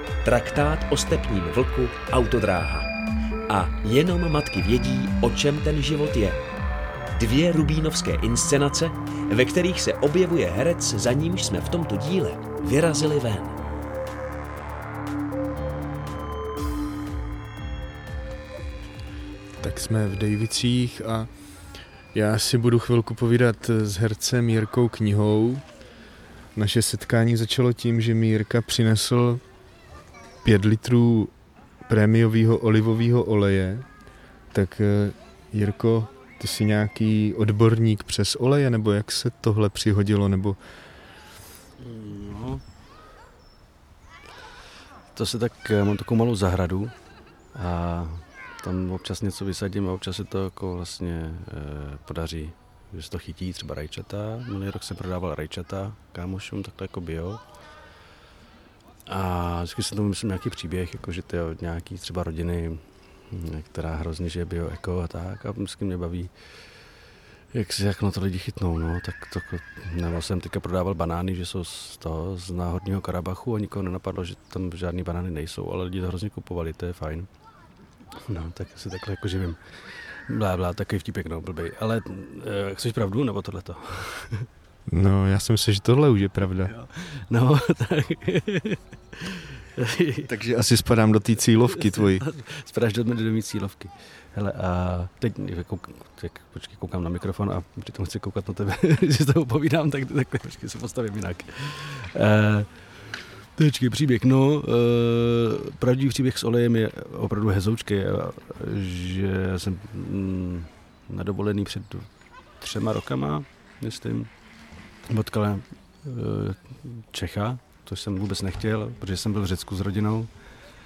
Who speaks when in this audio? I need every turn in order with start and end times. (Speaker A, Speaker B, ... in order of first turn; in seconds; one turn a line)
Speaker A: 0.2-2.9
Speaker A: 3.5-6.4
Speaker A: 7.1-13.6
Speaker B: 19.6-21.4
Speaker B: 22.1-25.8
Speaker B: 26.5-29.4
Speaker B: 30.4-31.4
Speaker B: 31.9-34.0
Speaker B: 34.5-40.6
Speaker C: 41.8-42.6
Speaker C: 45.1-47.0
Speaker C: 47.5-57.5
Speaker C: 59.1-77.3
Speaker C: 78.1-84.5
Speaker B: 84.9-86.7
Speaker C: 86.6-90.3
Speaker B: 90.3-92.2
Speaker C: 91.8-114.3
Speaker C: 115.0-120.3